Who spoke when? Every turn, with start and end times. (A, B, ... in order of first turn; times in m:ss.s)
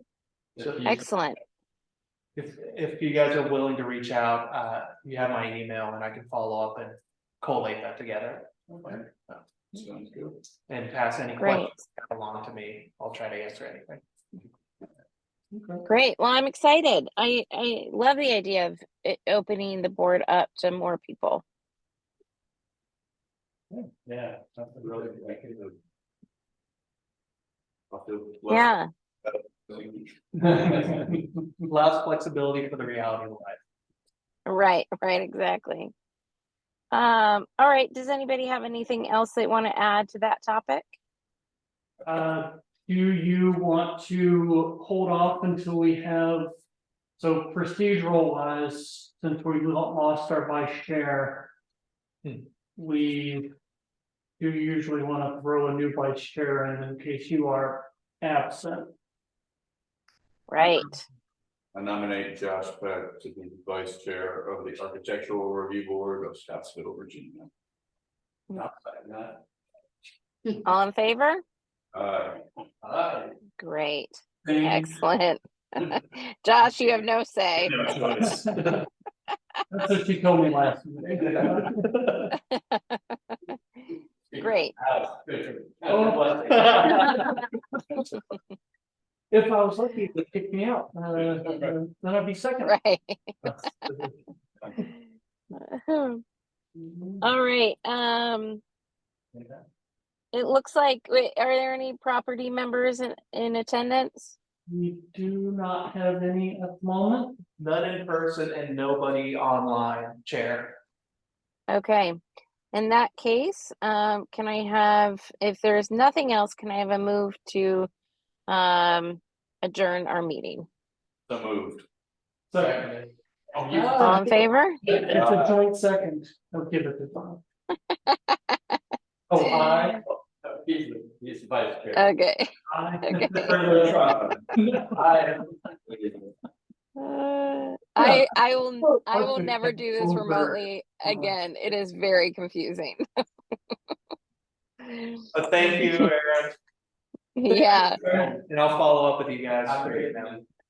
0:00.6-0:01.1 A
0:00.6-0:00.9 B
0:00.8-0:01.4 C
0:02.3-0:09.4 B
0:09.7-0:10.3 D
0:10.7-0:14.0 B
0:11.4-0:11.7 C
0:15.5-0:15.8 E
0:15.9-0:21.4 C
0:24.1-0:25.4 A
0:25.0-0:25.7 D
0:27.9-0:28.7 D
0:28.5-0:28.9 C
0:29.2-0:30.1 D
0:30.4-0:31.2 A
0:31.6-0:33.6 B
0:34.5-0:35.9 C
0:36.9-0:40.9 C
0:42.0-0:46.6 E
0:47.2-0:51.5 E
0:52.8-0:53.5 E
0:54.4-0:58.9 E
1:00.5-1:01.0 C
1:01.7-1:07.5 D
1:08.6-1:09.4 A
1:10.6-1:11.4 C
1:11.9-1:12.4 D
1:12.8-1:13.3 A
1:13.6-1:17.8 C
1:14.5-1:14.9 A
1:18.1-1:18.5 B
1:18.2-1:18.8 E
1:19.7-1:22.0 E
1:22.4-1:23.5 C
1:24.3-1:27.2 A
1:24.4-1:24.7 C
1:25.9-1:27.3 E
1:26.5-1:27.2 B
1:29.3-1:32.8 E
1:31.2-1:31.7 A
1:32.6-1:33.7 C
1:33.4-1:34.2 E
1:35.5-1:36.2 C
1:36.8-1:37.3 E
1:37.2-1:38.6 C
1:39.3-1:39.6 E
1:40.3-1:44.4 C
1:44.7-1:47.4 E
1:47.6-1:50.8 B
1:51.7-1:52.2 C
1:52.7-1:57.9 C
1:58.5-2:00.7 C
2:01.3-2:01.8 D
2:02.5-2:02.9 E
2:02.5-2:03.1 B
2:03.5-2:04.2 A
2:03.5-2:07.4 E
2:04.0-2:04.8 C
2:05.1-2:05.5 D
2:07.9-2:08.8 C
2:09.3-2:10.0 E
2:09.4-2:09.9 C
2:10.4-2:12.1 A
2:12.0-2:13.5 C
2:12.7-2:14.0 E
2:13.7-2:16.3 A
2:13.8-2:14.3 D
2:14.5-2:14.9 E
2:17.0-2:23.0 C
2:18.9-2:20.6 E
2:24.8-2:26.1 C
2:25.3-2:26.5 B
2:27.4-2:28.0 C
2:27.6-2:28.4 A
2:28.2-2:30.4 B
2:29.6-2:30.5 A